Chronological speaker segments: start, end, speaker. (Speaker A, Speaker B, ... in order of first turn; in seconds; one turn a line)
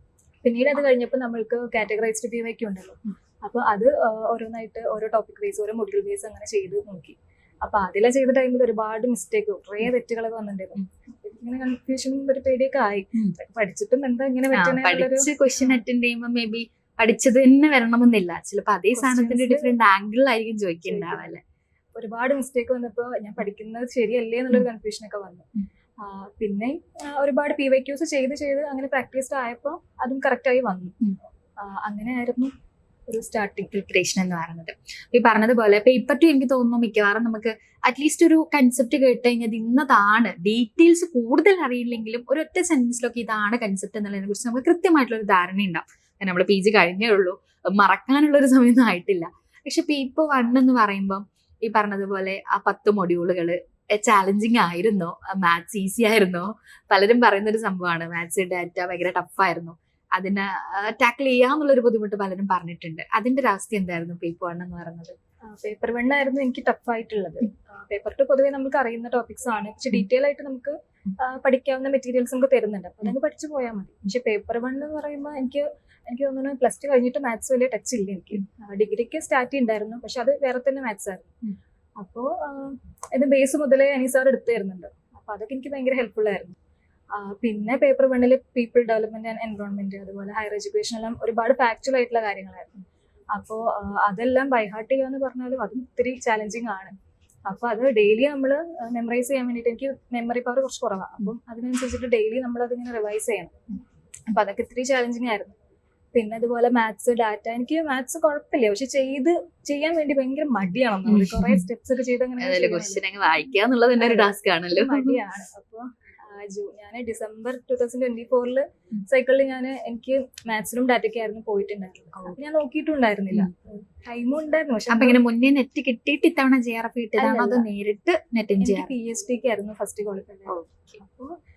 Speaker A: 0.4-15.8
Speaker B: 14.5-21.4
Speaker A: 18.9-19.7
Speaker A: 20.9-21.3
Speaker A: 21.9-31.0
Speaker A: 31.6-32.5
Speaker A: 33.1-33.7
Speaker B: 33.7-65.2
Speaker A: 65.5-81.4
Speaker A: 82.0-86.5
Speaker A: 87.1-96.9
Speaker A: 97.5-103.6
Speaker A: 104.3-105.5
Speaker A: 106.1-113.0
Speaker B: 111.1-111.7
Speaker B: 112.4-115.2
Speaker A: 114.0-125.2
Speaker B: 124.9-128.9
Speaker A: 127.2-127.7
Speaker A: 128.6-131.3
Speaker B: 130.5-131.0